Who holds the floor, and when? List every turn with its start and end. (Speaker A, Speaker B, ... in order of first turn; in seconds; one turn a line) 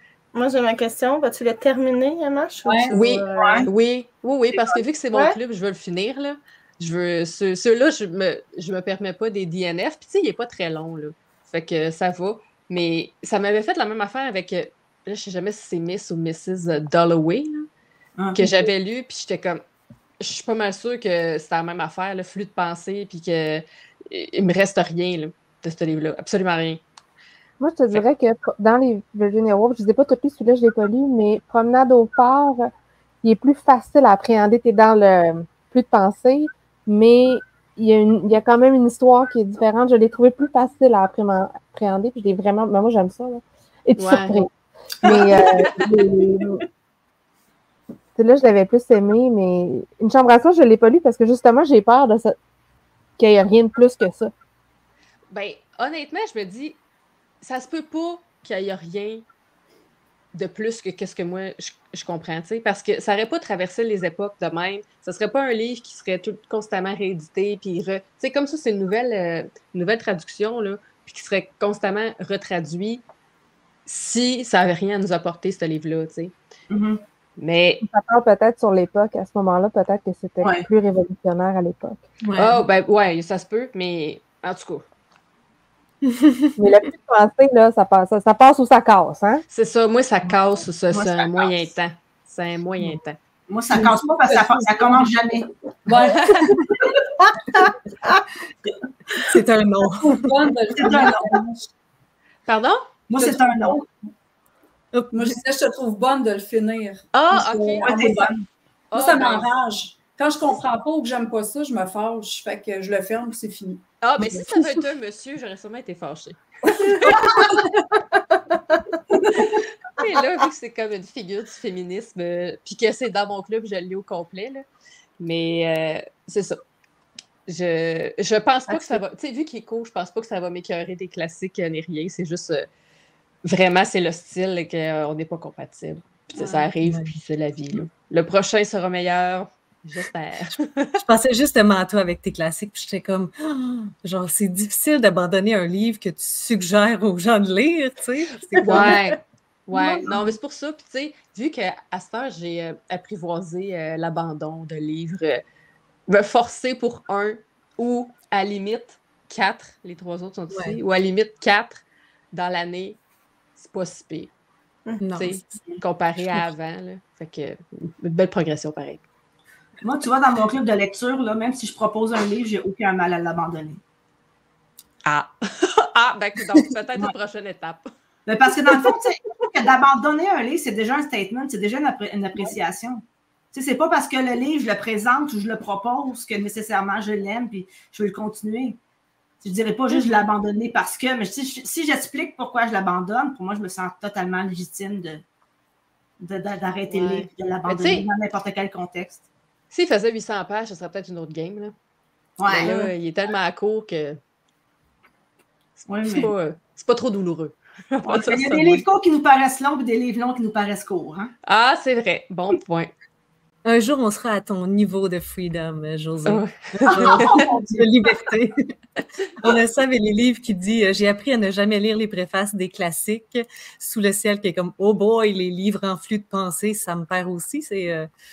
Speaker A: 0.3-3.7
Speaker B: 2.6-2.9
Speaker C: 2.9-17.7
Speaker D: 3.3-3.7
Speaker D: 18.2-18.4
Speaker C: 18.3-19.6
Speaker C: 20.2-26.8
Speaker E: 27.6-32.7
Speaker E: 33.2-44.5
Speaker C: 44.0-44.5
Speaker E: 45.0-46.6
Speaker C: 45.0-46.0
Speaker E: 48.1-52.4
Speaker E: 53.2-54.3
Speaker C: 55.3-56.8
Speaker C: 57.4-59.2
Speaker C: 60.3-73.0
Speaker C: 73.8-76.3
Speaker D: 76.7-77.0
Speaker C: 77.4-77.8
Speaker E: 77.8-82.0
Speaker D: 80.4-80.7
Speaker F: 82.3-82.6
Speaker C: 82.4-84.8
Speaker F: 86.0-86.5
Speaker E: 86.6-89.4
Speaker C: 89.5-93.2
Speaker D: 90.9-91.7
Speaker D: 93.5-95.5
Speaker B: 93.7-95.1
Speaker B: 95.9-96.7
Speaker C: 96.0-96.5
Speaker F: 99.2-100.3
Speaker B: 100.0-101.7
Speaker D: 100.7-101.4
Speaker C: 102.5-102.9
Speaker D: 103.1-103.8
Speaker B: 103.2-103.8
Speaker F: 104.9-105.4
Speaker B: 105.1-108.3
Speaker C: 107.1-108.2
Speaker D: 107.8-108.4
Speaker C: 108.9-109.5
Speaker B: 108.9-113.8
Speaker C: 114.0-117.2
Speaker D: 117.1-117.6
Speaker C: 120.0-124.6
Speaker C: 125.2-126.6
Speaker C: 127.5-132.7
Speaker C: 133.4-140.9
Speaker F: 136.4-137.1
Speaker F: 141.0-149.0
Speaker A: 148.6-149.0
Speaker C: 148.6-155.4
Speaker C: 156.1-163.0
Speaker C: 163.6-164.3
Speaker F: 165.0-165.6
Speaker C: 165.2-169.0
Speaker D: 169.8-173.8
Speaker C: 175.0-177.8
Speaker D: 178.2-183.0
Speaker D: 183.5-188.8
Speaker D: 189.4-195.2
Speaker D: 196.2-199.2
Speaker C: 196.9-198.1
Speaker C: 199.7-201.7
Speaker D: 202.4-202.9
Speaker C: 202.4-204.2
Speaker C: 205.8-208.8
Speaker D: 205.9-206.3
Speaker D: 208.0-211.3
Speaker C: 211.4-212.9
Speaker F: 213.6-218.7
Speaker C: 216.3-217.4
Speaker D: 216.9-217.9
Speaker F: 219.4-228.1